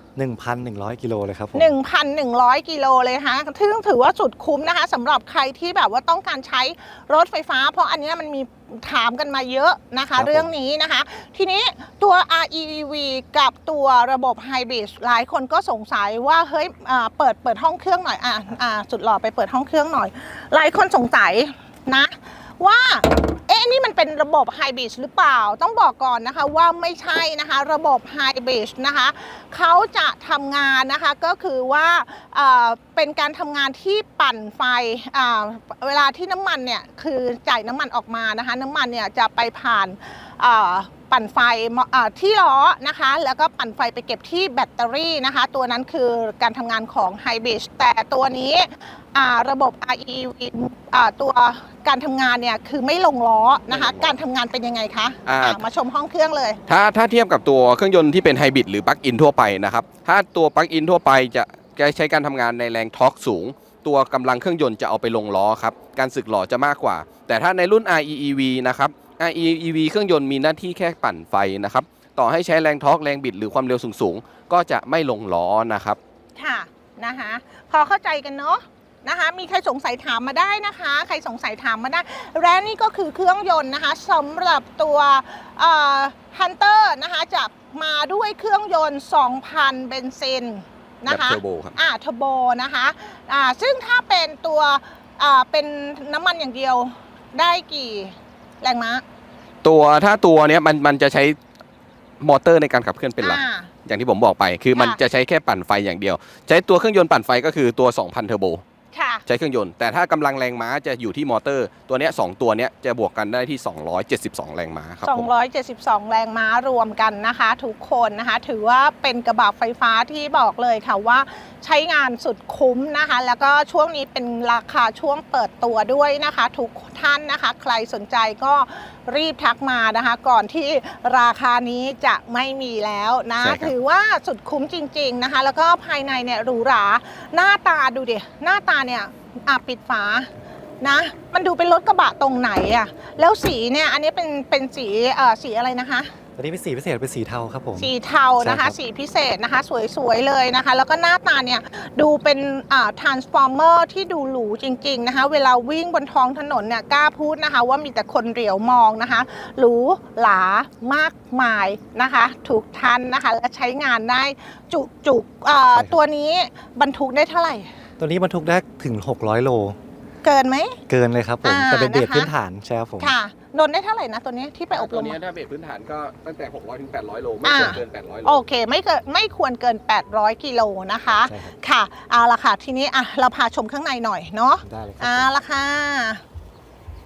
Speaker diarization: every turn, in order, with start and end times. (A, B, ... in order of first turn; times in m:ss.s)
0:00.2-0:01.7 A
0:01.5-0:56.6 B
0:10.2-0:10.5 A
0:53.7-0:54.2 C
0:55.2-0:55.6 C
0:56.7-1:16.0 C
1:16.4-1:39.0 B
1:31.1-1:31.8 C
1:39.6-1:41.4 C
1:42.2-1:48.6 C
1:43.2-1:43.7 B
1:48.9-1:49.2 B
1:49.3-1:55.3 C
1:55.0-2:20.3 B
2:13.4-2:13.7 C
2:20.8-2:26.1 B
2:26.4-2:28.8 A
2:27.8-2:47.7 B
2:48.0-2:49.8 A
2:50.2-2:50.8 B
2:50.9-2:53.1 A
2:51.4-2:52.3 B
2:53.0-2:55.2 B
2:54.7-2:58.4 C
2:57.4-3:06.2 B
3:01.3-3:01.6 A
3:04.6-3:05.3 A